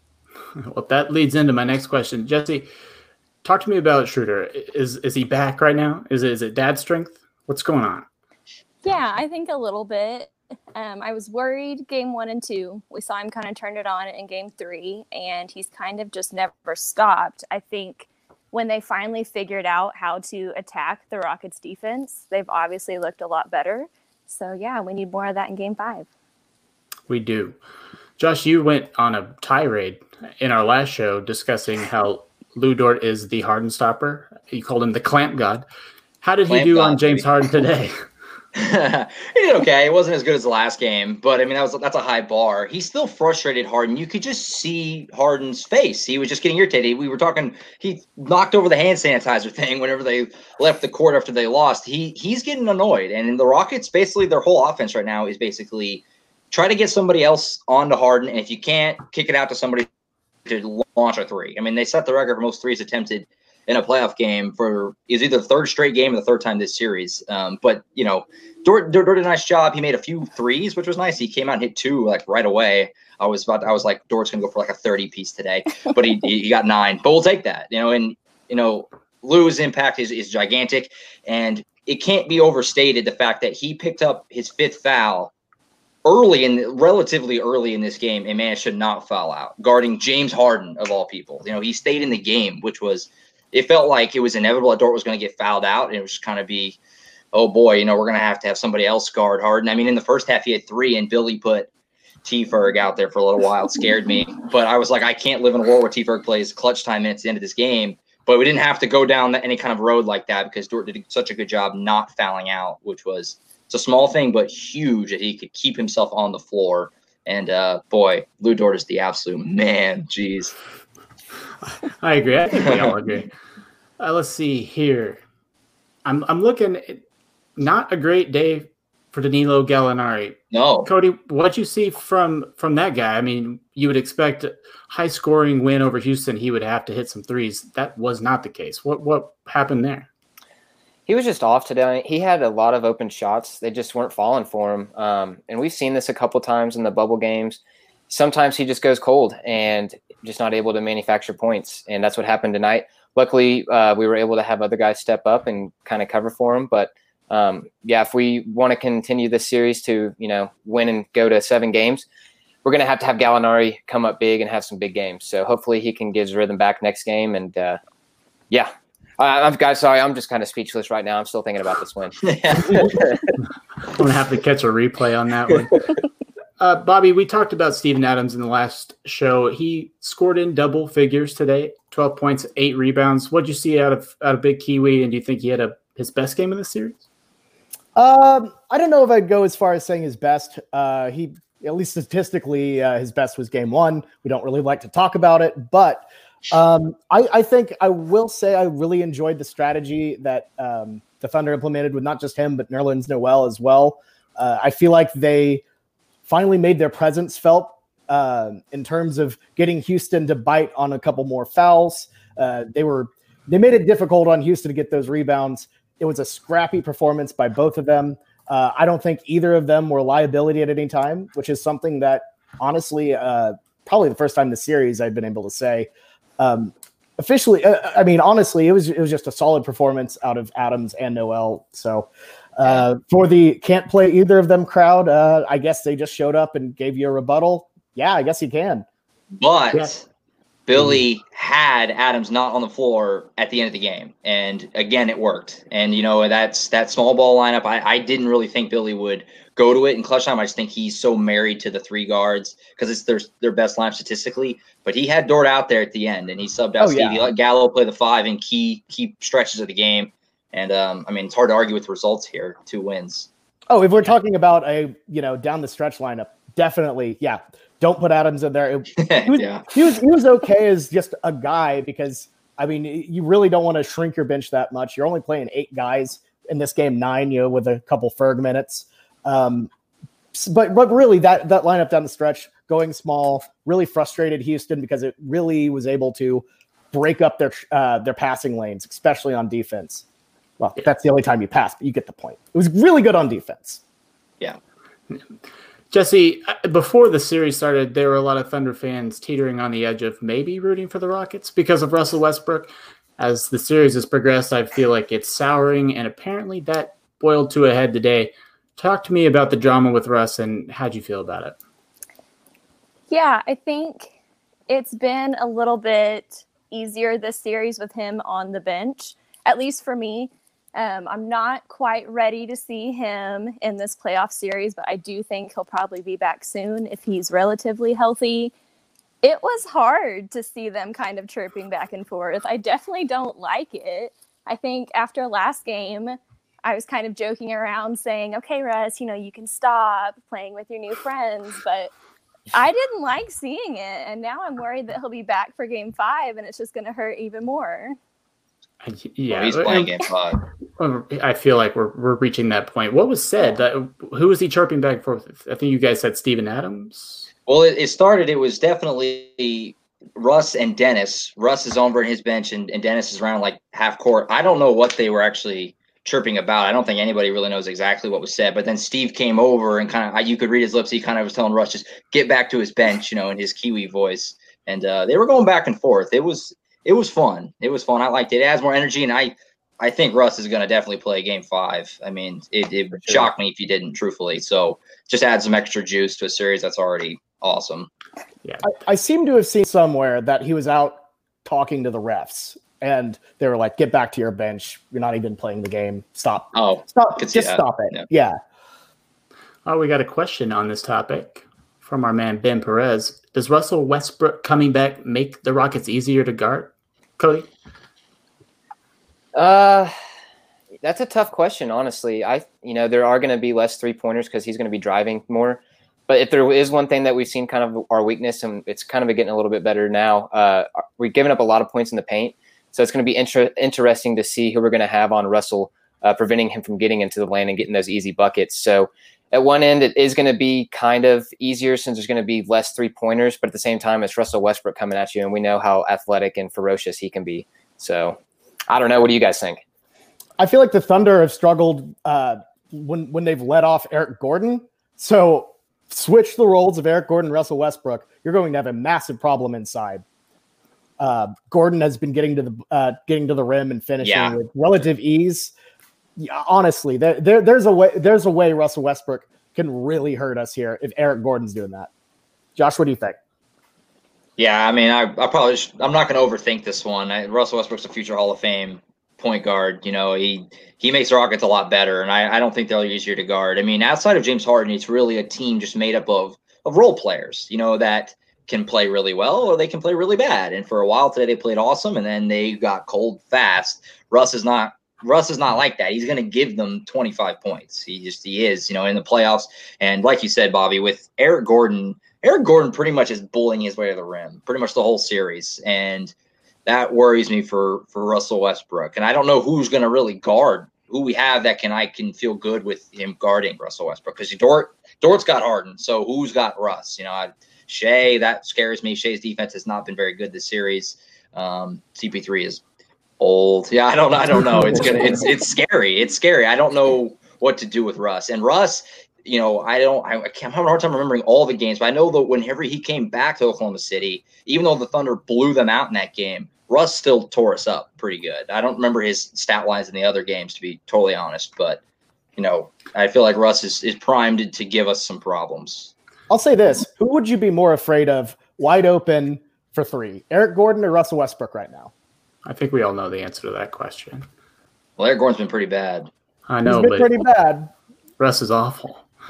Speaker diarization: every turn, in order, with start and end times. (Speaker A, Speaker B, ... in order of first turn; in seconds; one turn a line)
Speaker A: 0.6-2.7
Speaker A: 3.4-8.1
Speaker B: 8.8-26.1
Speaker A: 27.1-27.6
Speaker A: 28.2-35.6
Speaker A: 36.2-37.9
Speaker C: 36.5-37.3
Speaker C: 38.5-59.9
Speaker C: 60.5-85.3
Speaker C: 86.0-96.8
Speaker C: 97.3-101.7
Speaker C: 102.2-120.5
Speaker A: 121.7-123.3
Speaker C: 122.6-122.9
Speaker A: 124.0-125.2
Speaker A: 126.0-127.0
Speaker A: 127.5-140.1
Speaker C: 130.5-130.9
Speaker D: 141.1-162.1
Speaker D: 162.6-167.8
Speaker D: 168.5-172.2
Speaker C: 172.2-173.0
Speaker A: 173.9-175.8
Speaker A: 176.6-187.0
Speaker E: 187.9-205.6
Speaker E: 206.3-238.8
Speaker C: 239.4-240.0
Speaker C: 240.7-263.3
Speaker E: 256.8-257.2
Speaker E: 263.7-279.7
Speaker C: 269.0-269.6
Speaker E: 280.3-290.0
Speaker E: 290.6-293.8
Speaker A: 295.9-311.6
Speaker B: 313.1-314.1
Speaker B: 314.7-328.5
Speaker B: 329.2-341.9
Speaker B: 342.5-347.9
Speaker A: 348.8-349.9
Speaker C: 349.3-350.4
Speaker A: 350.8-357.3
Speaker C: 357.5-387.9
Speaker E: 388.6-398.4
Speaker C: 396.5-398.1
Speaker A: 399.6-407.5
Speaker D: 409.3-409.9
Speaker D: 410.8-439.6
Speaker E: 440.4-450.0
Speaker E: 451.0-455.5
Speaker C: 454.0-454.4
Speaker E: 456.2-461.9
Speaker E: 462.6-463.2
Speaker C: 464.4-496.1
Speaker C: 496.6-512.6
Speaker C: 513.2-531.8
Speaker C: 532.4-535.9
Speaker E: 536.3-541.9
Speaker A: 542.5-544.2
Speaker C: 545.0-546.1
Speaker A: 546.5-547.1
Speaker E: 546.6-547.7
Speaker A: 548.2-549.0